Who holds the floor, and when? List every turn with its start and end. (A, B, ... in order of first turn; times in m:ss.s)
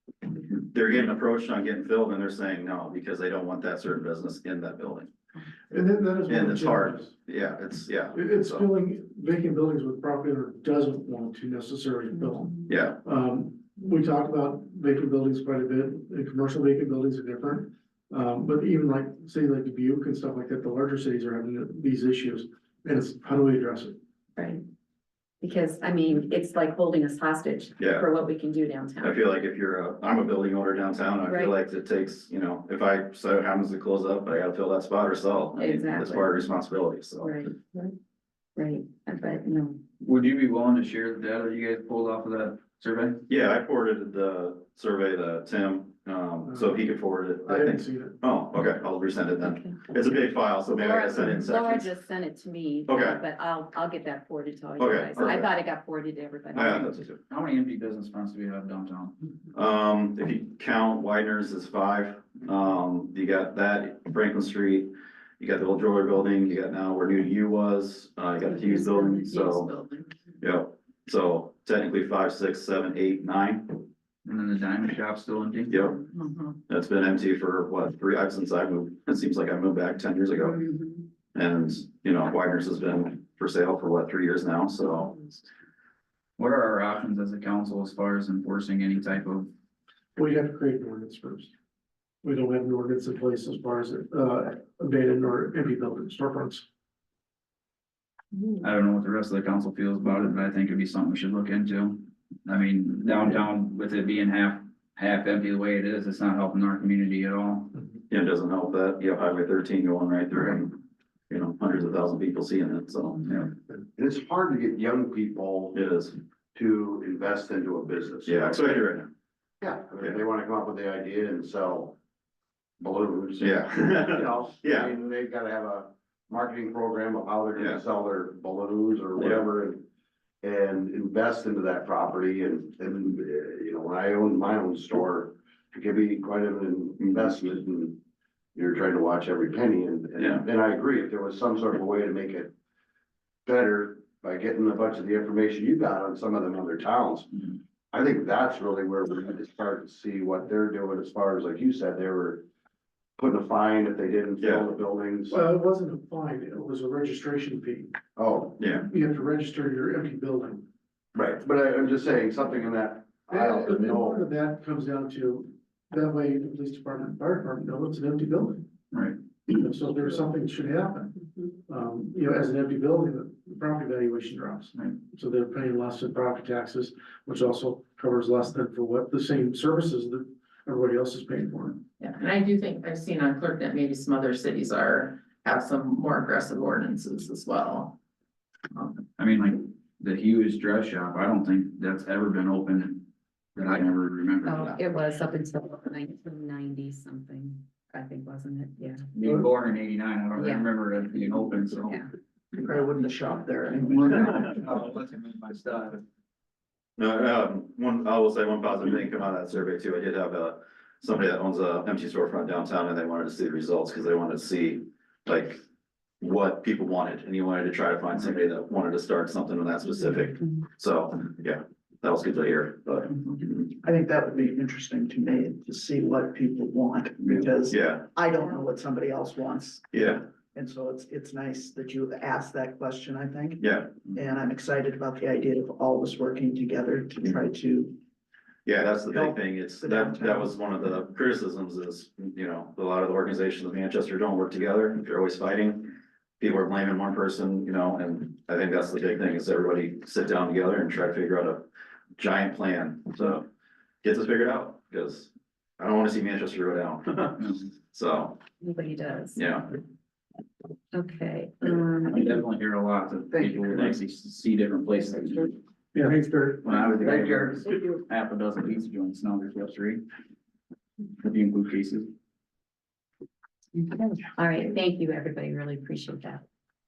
0:00.5-0:05.1 A
0:05.7-0:07.1 B
0:06.3-0:08.7 A
0:08.1-0:12.5 B
0:12.1-0:12.6 C
0:12.7-0:13.0 A
0:13.0-0:24.0 B
0:24.4-0:24.6 C
0:25.4-0:29.2 C
0:27.8-0:28.0 A
0:29.0-0:37.4 A
0:31.2-0:31.5 C
0:35.6-0:36.4 C
0:37.2-0:37.9 C
0:38.6-0:39.8 C
0:40.0-0:43.2 D
0:43.3-0:51.9 A
0:47.5-0:48.1 B
0:49.4-0:49.7 C
0:50.7-0:57.0 C
0:52.9-0:53.2 A
0:54.8-0:55.5 A
0:56.5-0:57.2 A
0:57.3-0:59.2 D
0:59.5-1:09.7 A
1:08.8-1:10.1 E
1:10.4-1:13.9 A
1:14.2-1:15.8 D
1:15.7-1:16.0 A
1:16.1-1:16.6 E
1:16.7-1:20.7 A
1:21.3-1:25.3 A
1:26.4-1:29.5 D
1:30.2-1:31.5 B
1:32.2-1:36.6 B
1:38.6-1:47.8 D
1:48.1-1:50.8 A
1:51.3-1:53.2 A
1:54.0-1:55.8 F
1:55.7-1:56.2 A
1:56.5-1:58.7 F
1:58.3-1:59.1 A
1:59.6-2:02.0 F
2:02.8-2:09.8 F
2:03.4-2:04.9 A
2:10.4-2:18.0 F
2:18.5-2:22.5 F
2:20.2-2:20.4 A
2:23.4-2:32.4 F
2:33.2-2:35.4 F
2:34.4-2:34.6 A
2:35.3-2:37.9 B
2:38.2-2:38.6 F
2:38.6-2:38.8 A
2:38.9-2:40.7 B
2:41.1-2:44.2 F
2:43.3-2:48.7 B
2:48.9-2:49.2 D
2:49.6-2:51.2 B
2:51.7-3:01.8 B
3:02.0-3:08.0 E
3:09.2-3:14.8 D
3:14.4-3:19.1 C
3:19.1-3:22.0 D
3:20.3-3:20.7 C
3:22.5-3:24.4 G
3:23.8-3:26.0 D
3:27.0-3:35.6 A
3:36.2-3:43.7 A
3:43.8-3:58.0 G
3:47.6-3:48.1 A
3:49.9-3:50.2 A
3:53.6-3:54.0 A
3:58.6-4:11.6 A
3:59.1-4:00.4 G
4:12.2-4:13.4 A
4:14.0-4:18.4 A
4:17.4-4:17.6 D
4:18.6-4:19.4 C
4:19.4-4:19.7 A
4:20.9-4:22.2 C
4:22.0-4:25.6 D
4:25.9-4:26.7 B
4:26.6-4:30.0 D
4:31.2-4:32.1 D
4:33.7-4:36.4 C